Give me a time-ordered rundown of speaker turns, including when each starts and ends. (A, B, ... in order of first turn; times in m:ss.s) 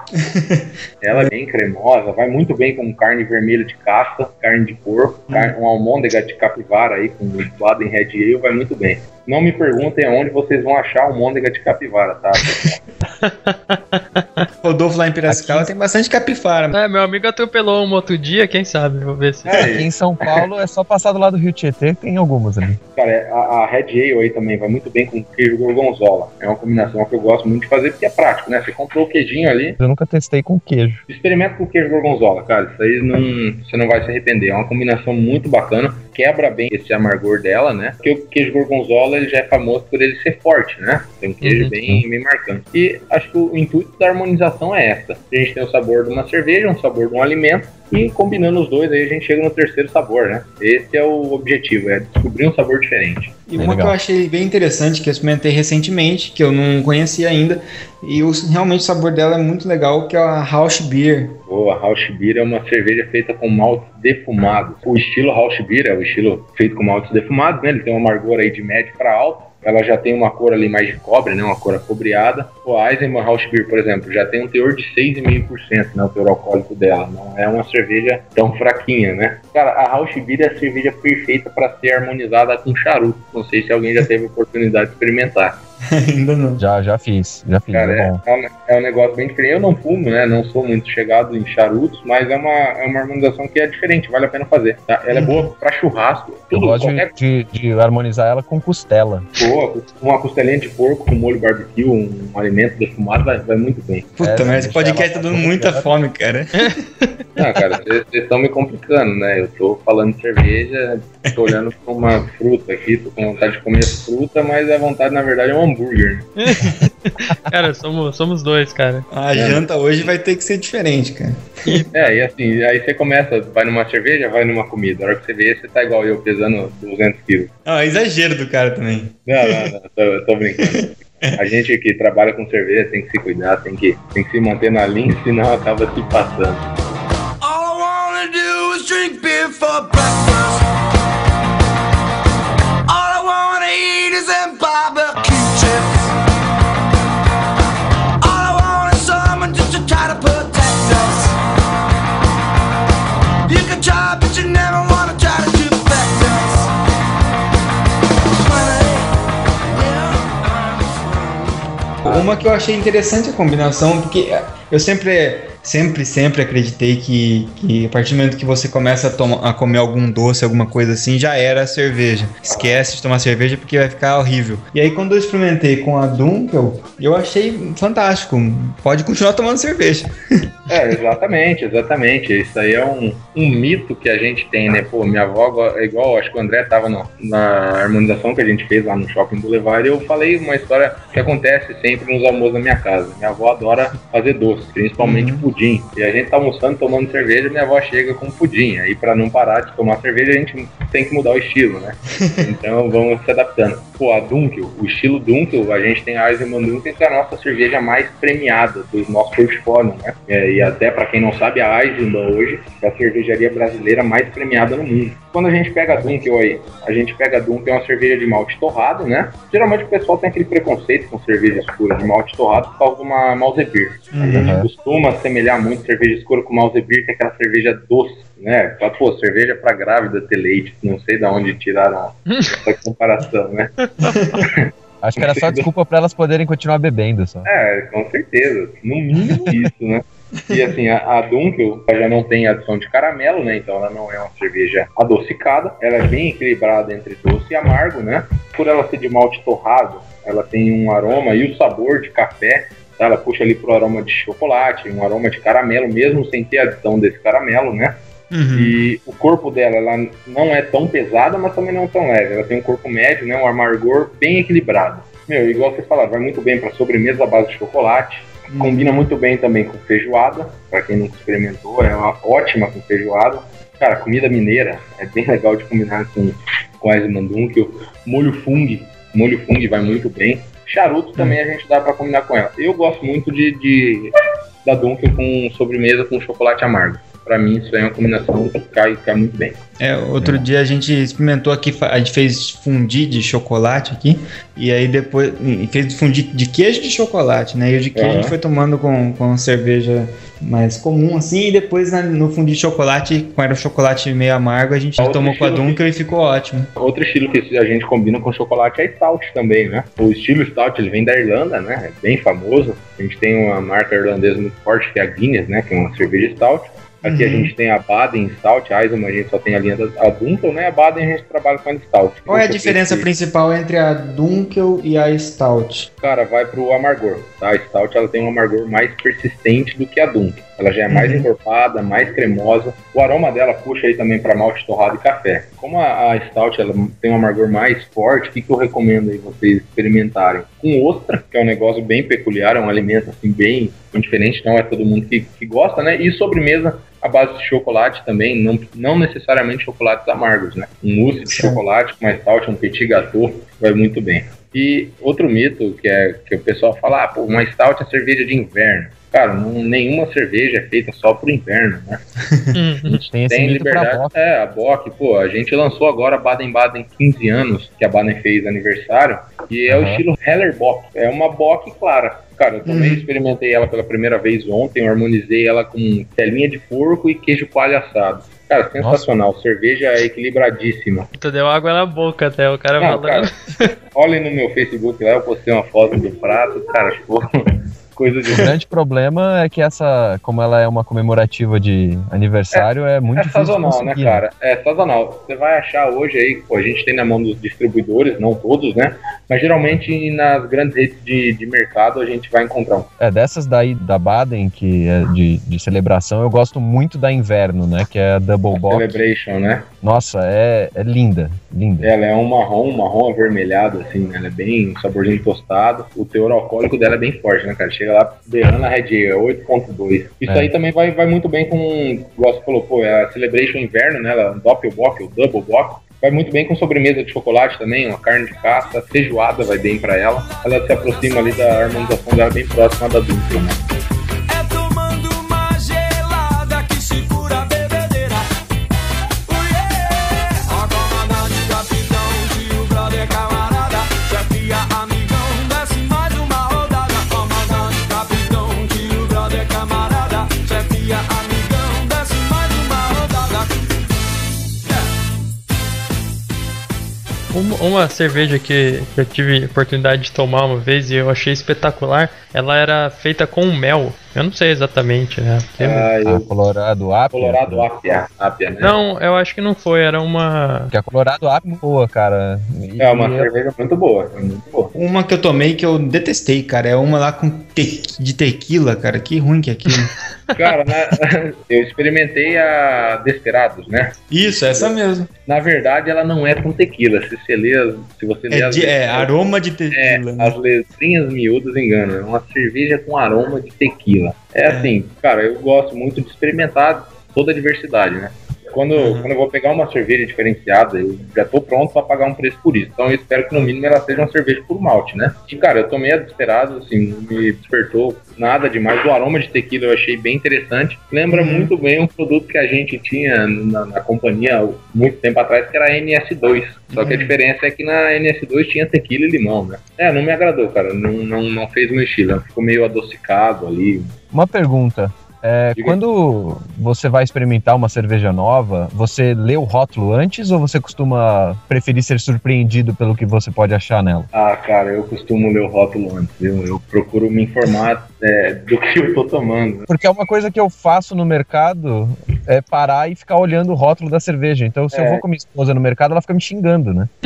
0:00.2-0:01.3 A
0:01.0-0:12.8 B
0:13.2-0:14.4 C
0:14.6-0:16.8 A
0:15.3-0:15.7 D
0:16.7-0:19.5 C
0:19.4-0:20.4 B
0:19.6-0:22.8 D
0:23.0-0:29.8 B
0:29.8-0:31.0 D
0:31.1-0:53.4 B
0:41.4-0:41.7 C
0:53.5-1:01.4 A
0:53.6-0:54.0 D
1:01.5-1:25.6 B
1:25.8-1:26.6 A
1:26.6-1:28.2 D
1:27.7-1:37.1 B
1:35.1-1:35.5 A
1:36.5-1:39.3 D
1:39.4-1:44.2 B
1:44.2-1:46.8 A
1:44.2-1:45.9 D
1:47.4-1:56.3 B
1:56.4-1:59.1 C
1:59.1-2:01.8 A
1:59.3-1:59.6 B
2:01.9-2:07.5 B
2:07.6-2:09.7 A
2:09.3-2:16.6 B
2:10.7-2:11.4 A
2:17.4-2:20.6 E
2:22.9-2:26.1 E
2:28.2-2:31.4 E
2:33.4-2:36.7 E
2:38.4-2:39.1 E
2:39.6-2:41.6 E
2:42.0-3:00.5 A
2:52.4-2:52.8 B
3:00.7-3:53.8 B
3:15.0-3:15.4 A
3:44.1-3:44.6 A
3:44.3-3:44.7 D
3:54.3-3:55.7 B
3:55.0-3:57.5 D
3:57.4-4:18.0 B
4:18.3-4:18.7 A
4:18.5-4:44.1 B
4:28.5-4:28.8 A
4:44.6-4:49.6 B
4:49.8-5:06.7 A
4:50.2-4:50.4 D
4:57.9-4:58.4 B
5:05.0-5:05.8 B
5:06.8-5:23.1 B
5:17.0-5:17.5 A
5:22.3-5:25.9 A
5:26.0-6:02.0 B
5:30.9-5:31.3 A
5:51.3-5:51.6 A
6:02.3-6:02.6 A
6:02.5-6:03.0 C
6:02.8-6:21.1 B
6:03.1-6:04.1 D
6:09.7-6:10.0 D
6:12.6-6:13.1 A
6:18.8-6:19.0 D
6:21.2-6:23.7 C
6:22.8-6:23.3 B
6:23.9-6:28.5 B
6:28.3-6:34.2 D
6:32.5-6:42.9 B
6:43.0-6:49.0 D
6:48.5-6:49.7 B
6:49.8-6:51.9 D
6:51.8-7:13.6 B
7:10.3-7:11.8 E
7:14.3-7:18.3 E
7:19.3-7:33.6 E
7:37.3-7:45.9 C
7:45.6-7:46.3 B
7:46.0-7:47.6 D
7:47.1-7:48.8 B
7:48.6-7:50.7 C
7:50.7-7:53.3 D
7:52.8-7:54.7 B
7:54.7-7:59.9 A
8:00.3-8:09.1 B
8:04.1-8:05.1 A
8:08.3-8:10.4 A
8:09.7-8:43.9 B
8:14.4-8:14.7 A
8:18.7-8:19.1 A
8:31.1-8:31.5 A
8:36.7-8:37.2 A
8:44.1-8:54.1 D
8:54.1-8:59.7 B
8:59.7-9:06.9 D
9:04.7-9:05.0 B